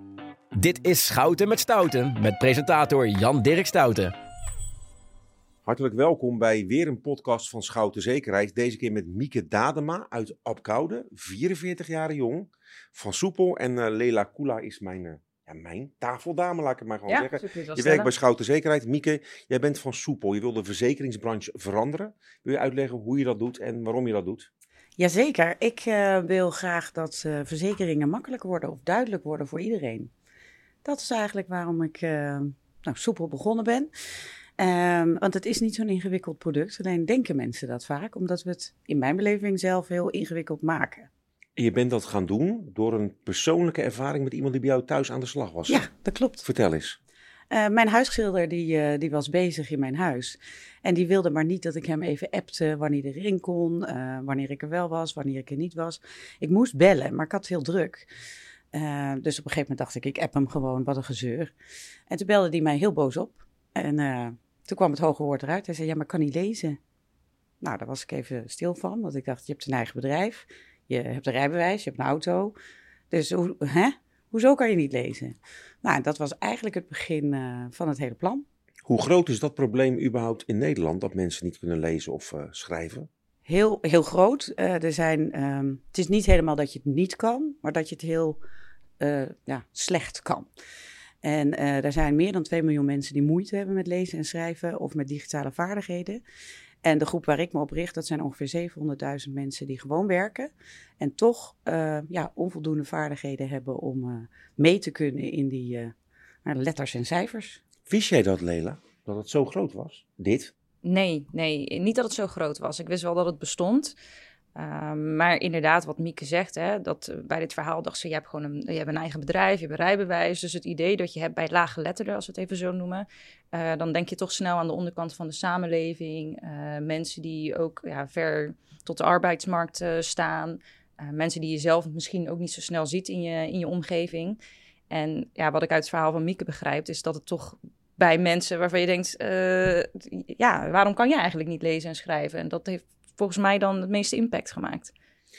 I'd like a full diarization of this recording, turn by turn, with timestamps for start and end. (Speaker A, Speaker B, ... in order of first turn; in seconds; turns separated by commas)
Speaker A: 0.5-4.1, Speaker B: 5.7-24.5, Speaker C: 17.1-18.1, Speaker D: 25.0-30.1, Speaker D: 30.8-33.9, Speaker D: 34.6-41.1, Speaker B: 41.6-45.9, Speaker D: 45.7-46.5, Speaker B: 46.4-47.0, Speaker D: 47.5-58.1, Speaker D: 58.7-61.5, Speaker D: 62.1-66.8, Speaker D: 67.6-72.5, Speaker D: 73.1-78.4, Speaker B: 78.9-83.1, Speaker D: 83.4-88.4, Speaker D: 89.0-90.5, Speaker D: 91.2-96.2, Speaker D: 96.8-105.9, Speaker D: 106.4-107.6, Speaker B: 107.9-110.5, Speaker C: 110.8-114.0, Speaker C: 114.5-144.9